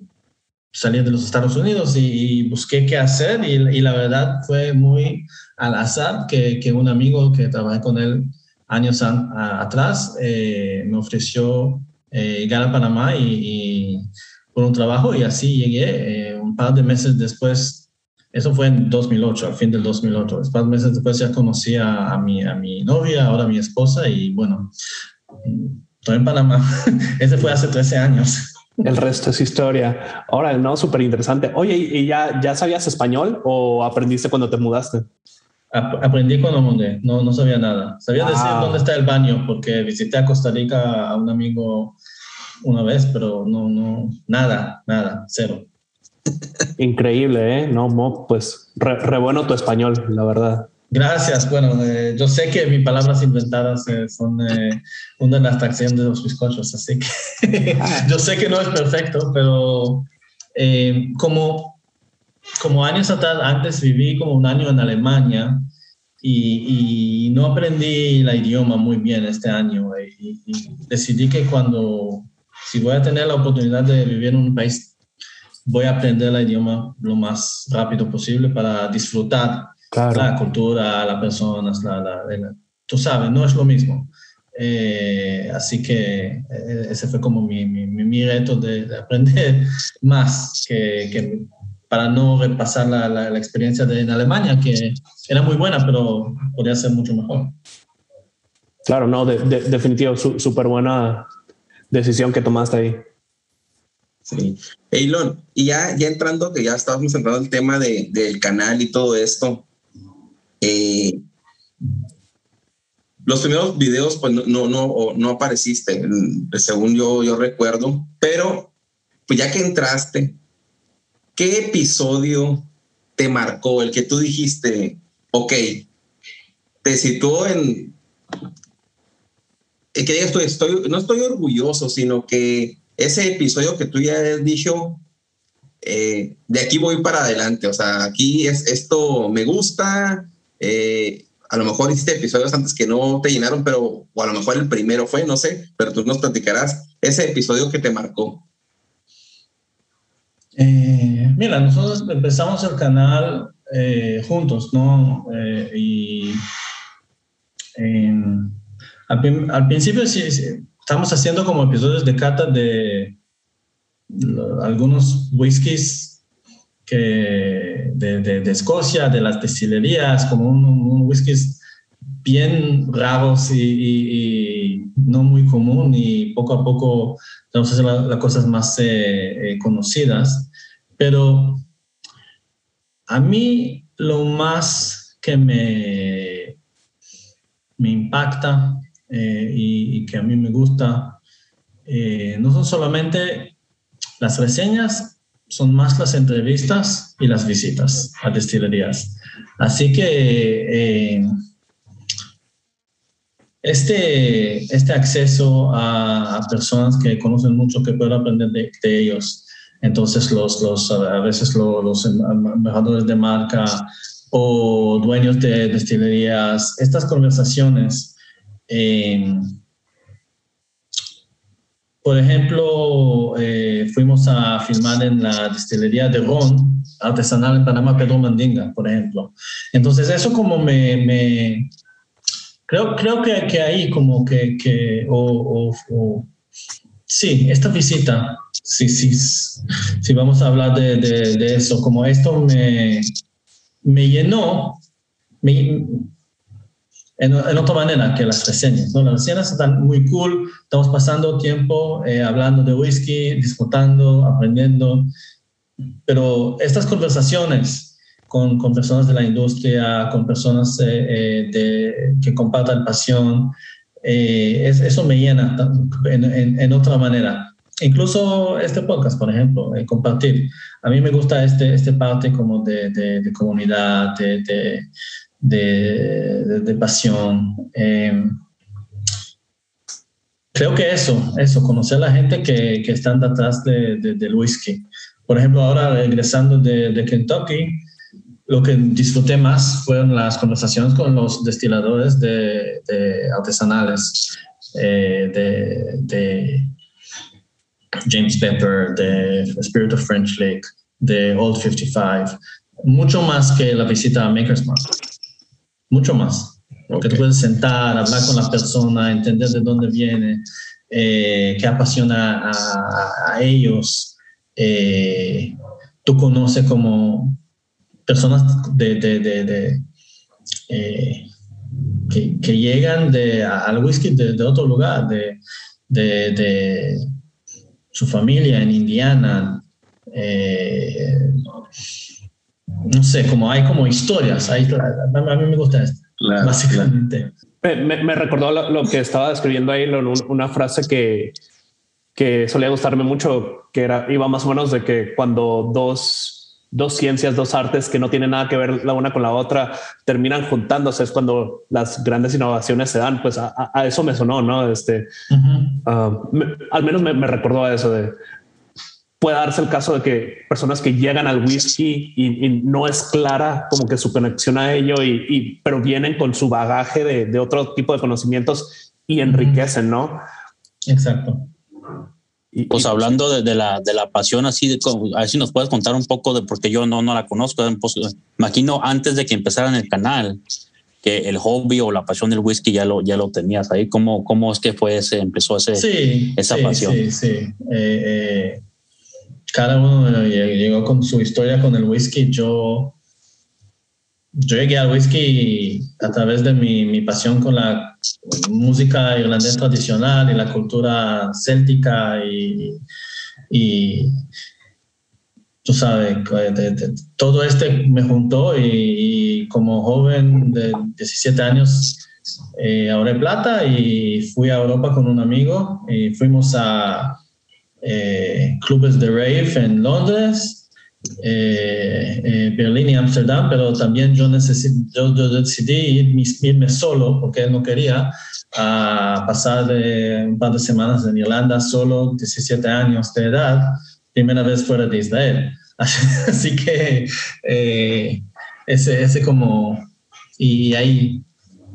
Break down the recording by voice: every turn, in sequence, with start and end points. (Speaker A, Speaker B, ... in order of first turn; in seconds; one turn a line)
Speaker A: 0.7-24.7
Speaker A: 25.4-29.0
Speaker B: 28.9-35.1
Speaker A: 35.7-42.0
Speaker B: 38.2-38.8
Speaker A: 42.6-45.7
Speaker B: 46.8-50.7
Speaker A: 50.9-61.8
Speaker B: 57.8-58.1
Speaker A: 62.6-65.7
Speaker A: 66.2-74.9
Speaker A: 75.7-97.5
Speaker B: 79.9-80.3
Speaker B: 98.9-101.3
Speaker B: 101.9-103.0
Speaker C: 104.3-109.7
Speaker C: 110.6-111.2
Speaker C: 113.2-118.7
Speaker C: 119.3-120.4
Speaker C: 121.4-125.9
Speaker C: 126.8-128.0
Speaker C: 129.9-135.0
Speaker C: 135.8-148.4
Speaker A: 150.6-156.4
Speaker A: 157.8-158.6
Speaker A: 159.1-163.2
Speaker A: 164.1-166.2
Speaker A: 166.9-171.6
Speaker A: 172.2-181.6
Speaker A: 183.1-186.6
Speaker A: 187.8-191.2
Speaker A: 191.9-193.6
Speaker A: 194.2-201.3
Speaker A: 203.6-218.2
Speaker A: 218.7-219.6
Speaker A: 222.0-231.7
Speaker A: 232.7-236.3
Speaker A: 237.1-243.1
Speaker A: 243.8-244.8
Speaker A: 245.4-246.1
Speaker A: 247.2-255.1
Speaker A: 256.1-274.9
Speaker A: 275.4-278.4
Speaker A: 280.6-287.8
Speaker A: 288.5-296.7
Speaker A: 298.1-304.9
Speaker A: 305.9-317.4
Speaker C: 306.9-307.2
Speaker A: 318.1-319.8
Speaker A: 320.7-321.3
Speaker A: 322.1-327.1
Speaker A: 327.9-331.5
Speaker A: 332.9-337.3
Speaker C: 336.2-336.9
Speaker B: 337.6-341.4
Speaker B: 342.2-355.1
Speaker A: 355.3-355.8
Speaker B: 355.9-358.1
Speaker B: 359.2-370.2
Speaker A: 369.3-369.6
Speaker A: 370.9-371.5
Speaker B: 372.5-373.2
Speaker D: 372.7-380.4
Speaker D: 381.0-387.0
Speaker A: 385.8-388.6
Speaker A: 389.5-393.0
Speaker A: 394.4-402.8
Speaker A: 403.5-404.2
Speaker A: 405.6-412.0
Speaker A: 412.6-417.2
Speaker A: 417.8-420.7
Speaker A: 421.2-439.9
Speaker A: 440.4-441.2